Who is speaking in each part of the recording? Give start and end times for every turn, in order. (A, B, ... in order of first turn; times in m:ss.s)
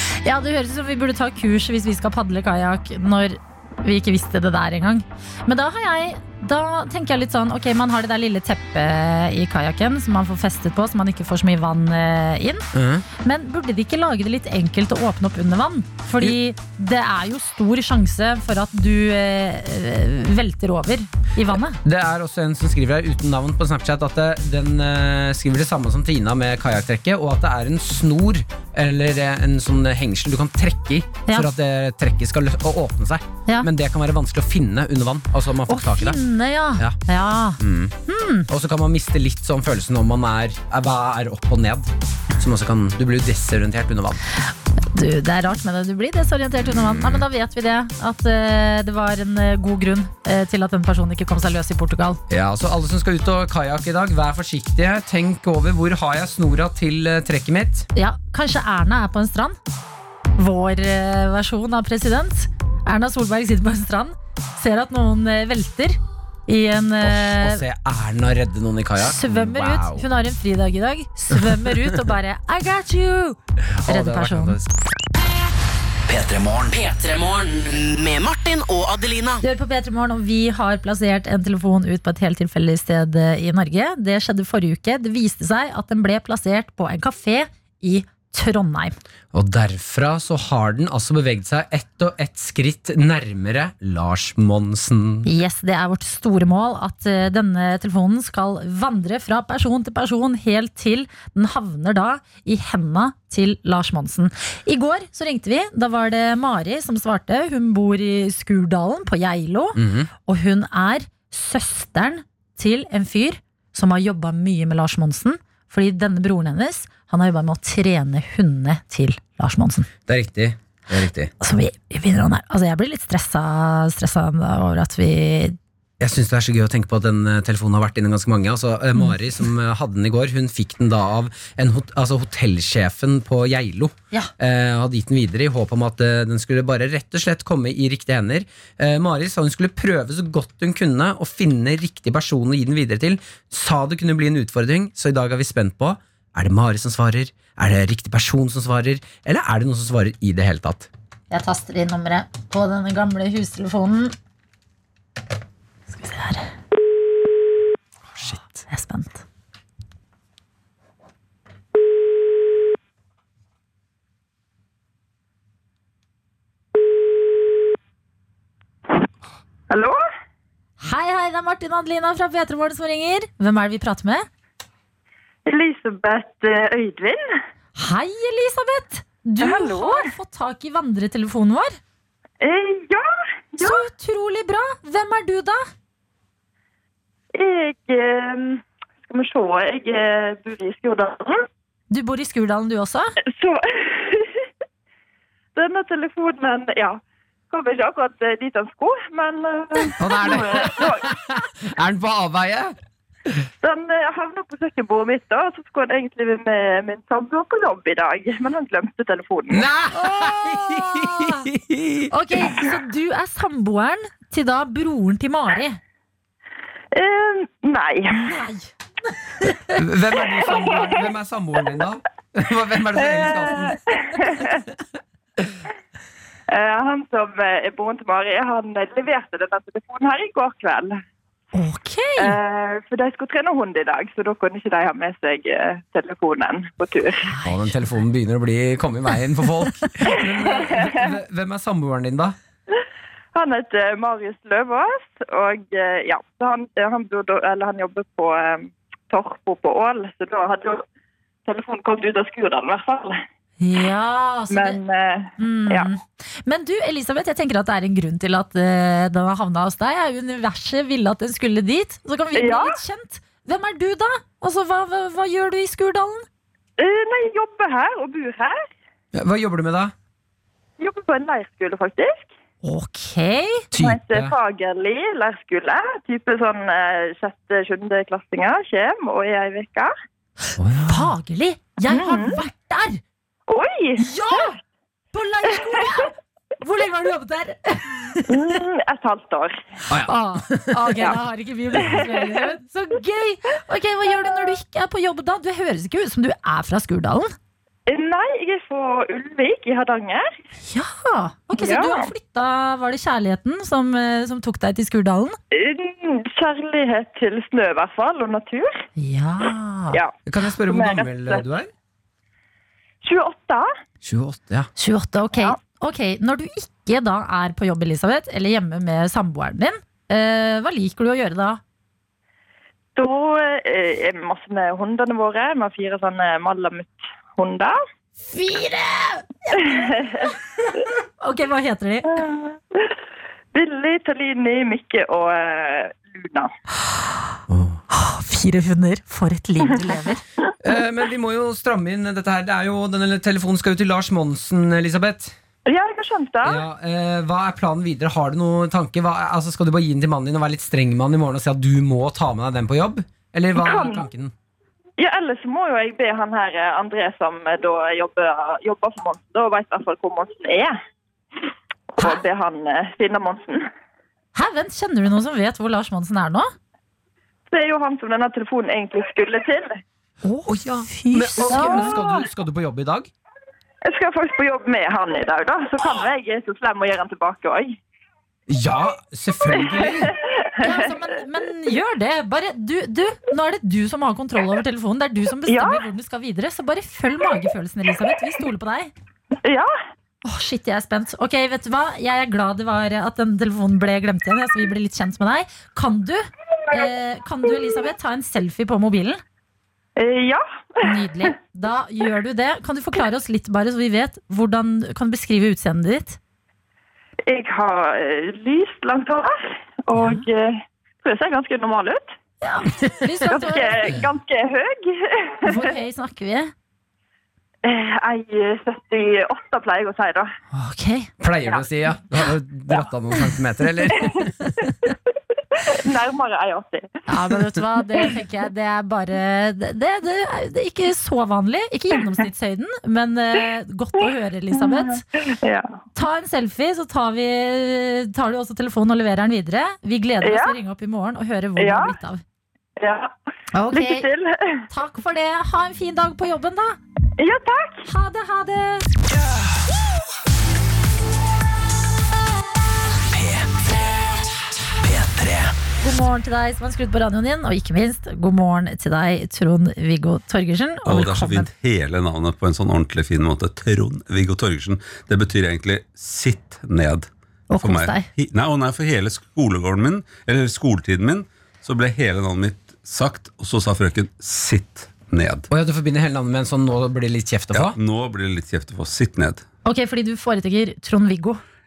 0:00.2-0:12.7 A
0:12.7-0:13.0 B
0:13.2-0:21.8 A
0:21.8-0:36.2 B
0:35.7-0:38.5 A
0:37.6-0:37.9 B
0:38.5-0:44.2 B
0:44.9-0:52.2 A
0:46.6-0:47.2 B
0:52.3-0:57.9 B
0:57.9-0:59.6 A
1:00.4-1:07.6 A
1:07.0-1:10.0 B
1:09.0-1:14.6 A
1:11.3-1:11.9 B
1:13.7-1:14.7 B
1:16.1-1:19.4 C
1:19.4-1:29.0 A
1:29.3-1:35.3 B
1:35.2-1:59.9 A
1:49.8-1:50.1 B
2:00.1-2:01.3 B
2:01.4-2:05.6 A
2:06.0-2:30.9 B
2:31.3-2:34.1 A
2:35.9-2:36.5 A
2:38.1-2:38.6 B
2:38.7-2:39.2 A
2:49.7-2:50.0 D
2:50.8-2:54.3 A
2:55.4-2:57.2 D
2:57.8-3:01.8 A
2:59.4-3:00.1 D
3:02.4-3:03.8 D
3:03.6-3:05.6 A
3:07.3-3:11.5 D
3:11.9-3:13.1 A
3:13.3-3:14.4 D
3:15.5-3:21.1 D
3:20.0-3:22.8 B
3:23.6-3:29.7 D
3:29.5-3:32.1 B
3:29.9-3:31.5 A
3:32.1-3:35.8 A
3:36.9-3:38.3 D
3:38.1-3:38.7 A
3:39.4-3:39.8 A
3:39.7-3:43.8 B
3:40.4-3:41.0 D
3:43.0-3:44.6 D
3:46.5-3:51.0 D
3:51.5-3:52.4 A
3:52.2-3:57.3 D
3:57.2-3:57.6 A
3:57.4-4:02.4 B
4:00.0-4:01.1 D
4:03.3-4:10.8 D
4:11.4-4:13.2 D
4:13.6-4:14.8 A
4:14.5-4:15.9 D
4:15.4-4:26.2 A
4:22.3-4:22.7 D
4:26.8-4:28.7 D
4:29.1-4:29.9 B
4:30.8-4:32.3 D
4:32.6-4:33.6 A
4:33.7-4:34.4 B
4:33.8-4:39.9 D
4:40.6-4:41.1 B
4:40.9-4:43.0 A
4:41.9-4:42.4 D
4:43.5-4:44.4 D
4:44.0-4:44.6 A
4:45.1-4:48.6 A
4:48.3-4:49.7 D
4:49.9-4:51.0 B
4:50.0-4:57.3 A
4:51.8-4:52.4 D
4:57.9-5:00.2 D
5:00.7-5:05.4 A
5:01.6-5:02.1 D
5:05.5-5:08.7 D
5:09.0-5:10.0 A
5:10.2-5:11.7 B
5:10.6-5:11.4 D
5:13.0-5:13.7 D
5:14.0-5:14.7 B
5:14.8-5:21.6 A
5:23.0-5:27.8 D
5:28.3-5:30.3 A
5:29.5-5:30.3 D
5:31.2-5:32.2 A
5:32.1-5:32.9 D
5:33.5-5:36.5 D
5:37.5-5:37.8 B
5:37.9-5:40.2 A
5:40.6-5:45.3 B
5:45.7-5:46.6 D
5:46.4-5:54.3 B
5:53.6-5:54.0 D
5:55.0-6:00.8 D
6:01.9-6:03.7 D
6:04.3-6:06.5 A
6:07.5-6:09.8 D
6:10.2-6:12.0 A
6:10.4-6:13.1 B
6:11.4-6:12.2 D
6:13.8-6:17.8 D
6:18.5-6:20.1 B
6:19.5-6:20.9 D
6:20.6-6:28.9 A
6:25.5-6:25.8 D
6:29.4-6:29.7 D
6:30.2-6:39.2 A
6:40.0-6:40.8 D
6:40.8-6:46.2 A
6:47.3-6:52.1 D
6:49.9-6:50.2 A
6:52.4-6:53.9 A
6:53.2-6:55.7 D
6:55.4-6:56.5 A
6:57.6-7:00.3 D
7:00.5-7:01.1 A
7:01.2-7:04.3 B
7:03.9-7:04.2 D
7:05.5-7:07.0 D
7:07.1-7:15.0 A
7:14.5-7:15.7 D
7:15.9-7:22.2 A
7:20.2-7:20.6 D
7:21.6-7:21.9 D
7:22.8-7:23.1 D
7:23.5-7:24.1 A
7:23.7-7:24.6 D
7:24.7-7:26.8 A
7:27.2-7:27.8 D
7:27.8-7:28.9 A
7:33.1-7:33.6 C
7:34.8-7:35.5 C
7:35.8-7:41.5 A
7:40.8-7:47.1 E
7:47.5-7:48.1 A
7:47.6-7:55.5 E
7:55.5-7:57.8 B
7:57.5-7:59.4 E
7:59.6-8:01.4 A